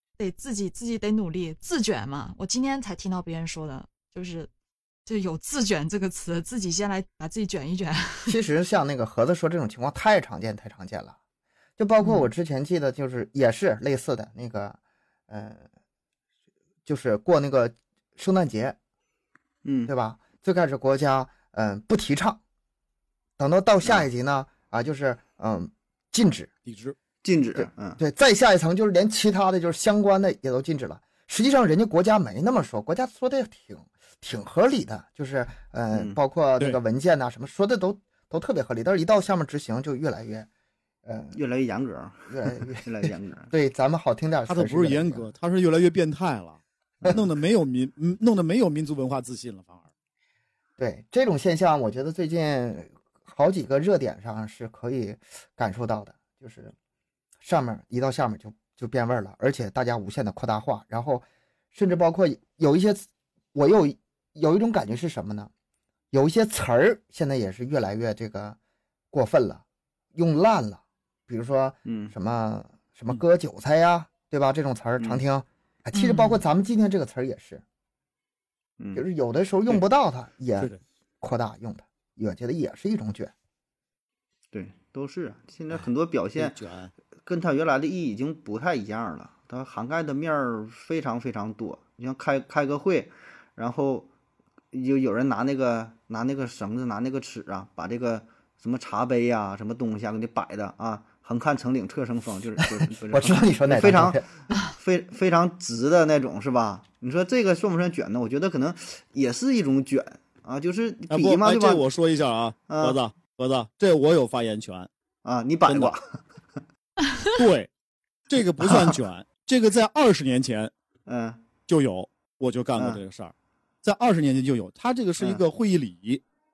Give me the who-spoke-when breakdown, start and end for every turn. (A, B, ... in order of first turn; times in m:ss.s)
0:00.2-0:04.5 A
0:05.0-0:08.3 A
0:08.3-0:11.2 B
0:11.8-0:14.8 B
0:12.0-0:12.3 A
0:15.3-0:15.6 B
0:16.8-0:18.8 B
0:19.6-0:19.9 C
0:19.9-0:22.4 B
0:23.4-0:26.5 B
0:26.6-0:27.0 D
0:27.2-0:28.0 C
0:27.6-0:40.5 B
0:41.0-0:41.4 B
0:41.3-0:43.5 C
0:42.3-0:45.3 B
0:44.5-0:49.8 D
0:50.8-0:56.7 B
0:57.4-1:05.5 B
1:06.1-1:08.6 B
1:09.1-1:09.6 B
1:10.1-1:17.6 B
1:11.8-1:12.1 C
1:15.9-1:16.4 A
1:18.9-1:23.3 B
1:24.5-1:26.6 C
1:26.4-1:26.9 D
1:27.2-1:34.1 C
1:34.7-1:51.8 C
1:43.1-1:44.2 B
1:51.1-1:54.9 D
1:52.7-1:53.0 C
1:55.2-1:56.2 C
1:55.7-1:55.9 D
1:57.3-1:57.7 D
1:58.3-2:00.7 D
1:58.6-1:59.0 C
2:01.1-2:01.4 C
2:01.7-2:06.2 D